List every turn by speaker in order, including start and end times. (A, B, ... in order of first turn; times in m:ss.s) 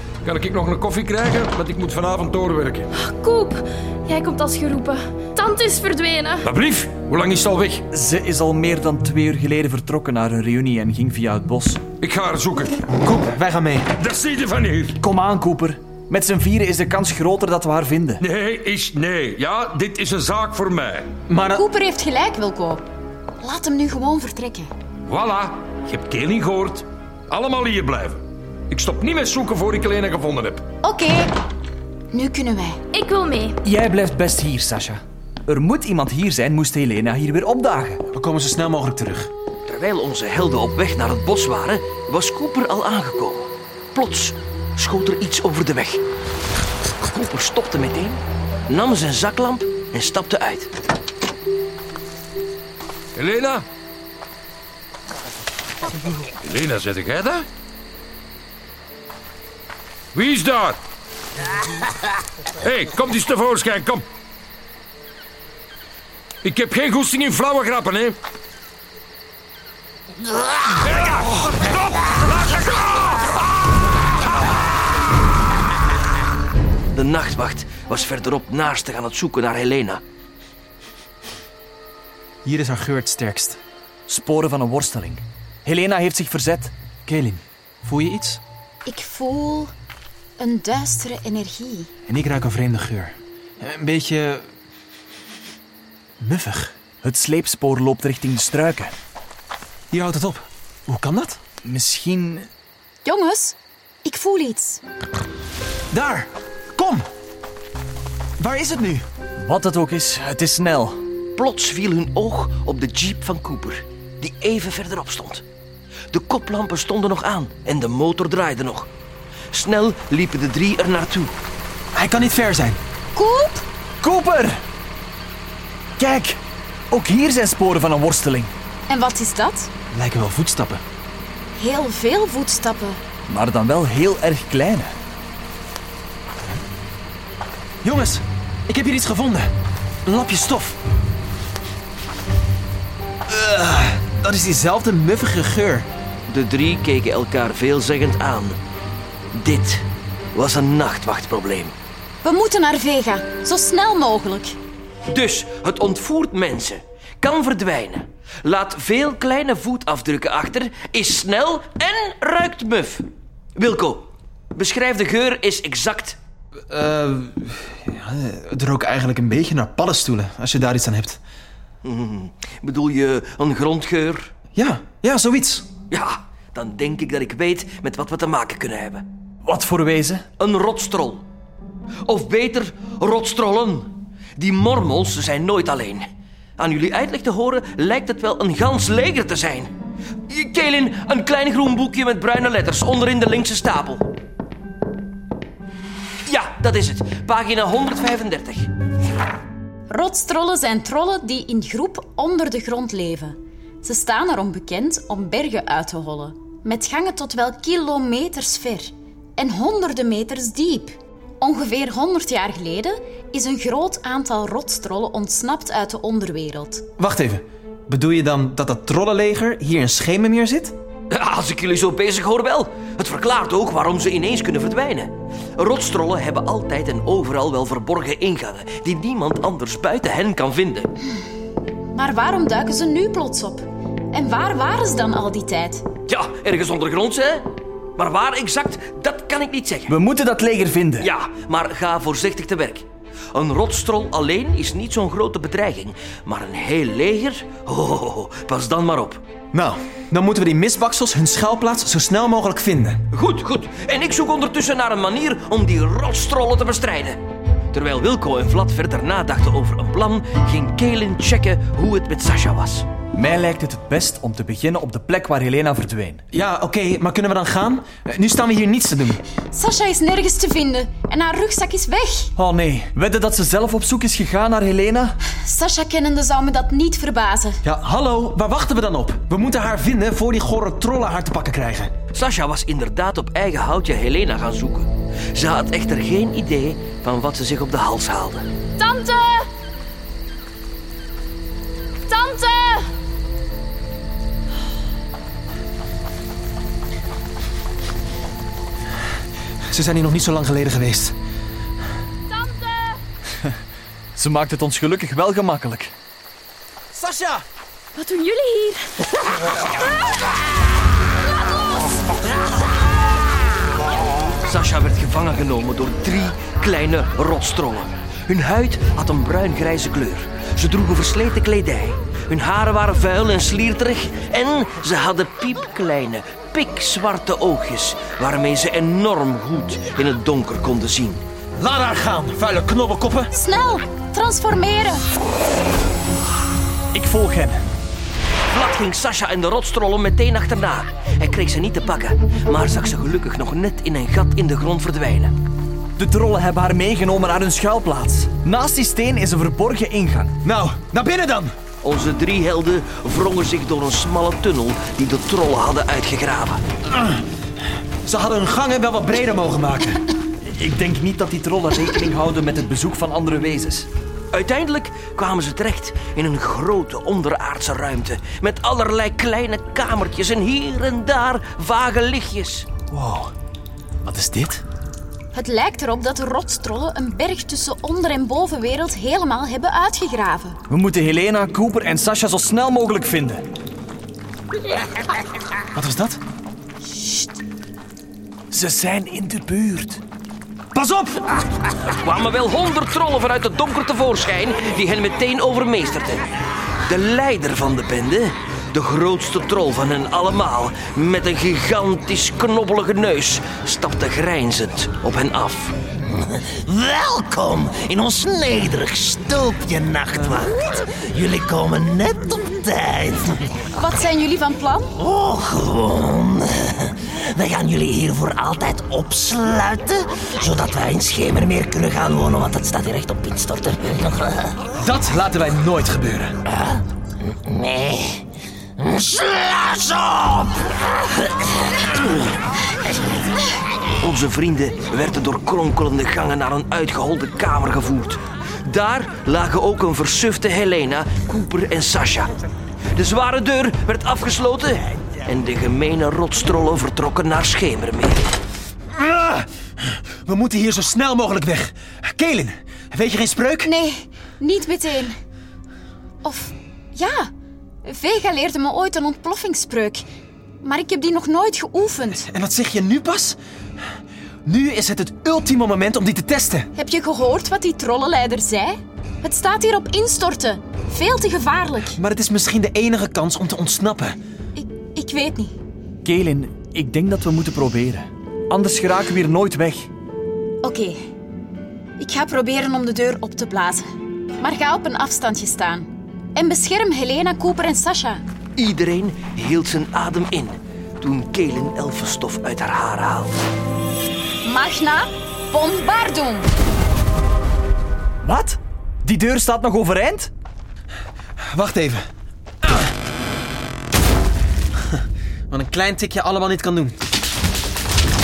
0:00.2-0:02.9 A
0:03.0-0:06.5 B
0:06.4-0:07.8 A
0:07.9-0:11.8 C
0:12.0-0:12.8 A
0:13.0-0:13.9 D
0:14.0-0:15.0 A
0:15.0-0:18.2 C
0:18.2-0:21.1 A
0:21.3-0:21.6 D
0:21.5-0:22.8 E
0:23.4-0:24.7 E
0:25.1-0:30.6 A
0:30.8-0:31.3 E
0:32.1-0:32.8 E
0:32.9-0:33.6 B
0:33.6-0:38.0 C
0:38.1-0:39.3 D
0:39.7-0:46.0 F
0:47.1-0:50.7 F
0:53.2-0:53.6 A
0:56.4-0:57.4 A
1:00.1-1:00.8 A
1:02.6-1:04.0 A
1:06.4-1:08.2 A
1:16.9-1:20.0 F
1:22.4-1:23.6 D
1:24.1-1:26.7 C
1:27.0-1:28.4 D
1:28.8-1:29.7 E
1:30.4-1:31.9 E
1:32.1-1:34.4 D
1:36.2-1:36.7 D
1:37.0-1:38.9 C
1:39.9-1:41.4 D
1:41.6-1:42.5 C
1:43.0-1:44.8 E
1:45.9-1:47.1 D
1:48.4-1:49.0 D
1:49.4-1:51.0 C
1:51.4-1:55.4 F
1:56.1-1:58.9 F
1:59.5-2:01.3 F
2:01.9-2:02.8 D
2:03.1-2:03.6 E
2:04.0-2:04.6 C
2:06.0-2:06.4 C
2:06.9-2:08.5 C
2:08.9-2:09.7 E
2:09.9-2:10.8 D
2:11.5-2:13.0 E
2:13.3-2:14.9 C
2:17.8-2:19.5 D
2:20.0-2:20.8 D
2:23.3-2:25.9 D
2:26.3-2:28.6 F
2:29.3-2:31.7 F
2:32.2-2:34.5 E
2:35.1-2:43.0 F
2:43.6-2:46.2 F
2:46.7-2:51.2 D
2:51.8-2:54.3 F
2:54.5-2:55.7 D
2:55.9-2:59.0 F
2:59.4-3:00.2 C
3:00.4-3:01.2 F
3:02.0-3:06.1 F
3:06.6-3:09.7 F
3:10.3-3:14.1 F
3:16.2-3:18.7 F
3:19.9-3:36.8 E
3:37.0-3:40.7 D
3:41.1-3:50.9 F
3:51.9-3:55.8 E
3:56.1-3:59.9 F
3:59.9-4:01.1 C
4:01.0-4:09.2 F
4:09.5-4:13.0 D
4:13.1-4:17.2 F
4:17.7-4:22.9 F
4:23.1-4:26.2 C
4:26.3-4:29.2 D
4:29.5-4:32.3 E
4:32.4-4:35.1 C
4:35.4-4:37.6 E
4:37.6-4:41.9 D
4:42.1-4:48.5 F
4:48.8-4:49.5 B
4:52.1-4:52.9 B
4:59.7-5:01.1 D
5:02.4-5:02.8 B
5:04.1-5:05.9 C
5:06.9-5:07.4 D
5:07.9-5:09.0 B
5:14.4-5:31.2 F
5:31.6-5:33.3 D
5:33.3-5:35.1 E
5:36.9-5:37.6 C
5:38.5-5:45.3 F
5:46.0-5:50.3 C
5:50.4-5:51.5 D
5:51.8-5:56.6 F
5:56.9-5:57.2 D
5:58.0-6:00.0 D
6:00.4-6:03.9 C
6:04.3-6:12.7 F
6:12.9-6:13.3 C
6:14.0-6:14.6 C
6:15.3-6:20.6 E
6:20.7-6:23.4 C
6:25.7-6:26.2 D
6:26.8-6:27.4 E
6:28.5-6:30.0 C
6:30.7-6:31.3 D
6:32.0-6:36.2 F
6:36.9-6:45.8 F
6:46.5-6:53.4 G
6:53.8-6:54.9 E
6:55.0-7:04.4 G
7:04.8-7:06.3 D
7:07.6-7:08.2 G
7:08.8-7:10.6 G
7:14.0-7:22.3 F
7:22.9-7:28.3 F
7:28.9-7:33.7 D
7:33.6-7:35.1 E
7:36.2-7:37.3 E
7:37.8-7:40.0 E
7:40.6-7:42.2 E
7:42.1-7:43.4 D
7:44.4-7:46.7 D
7:46.8-7:52.0 E
7:51.9-7:54.2 D
7:54.5-7:55.5 E
7:56.0-7:59.9 C
8:00.6-8:01.0 E
8:02.0-8:03.8 E
8:04.4-8:08.2 E
8:08.6-8:13.4 F
8:14.4-8:16.5 E
8:18.2-8:20.3 C
8:21.5-8:22.0 D
8:25.5-8:27.0 D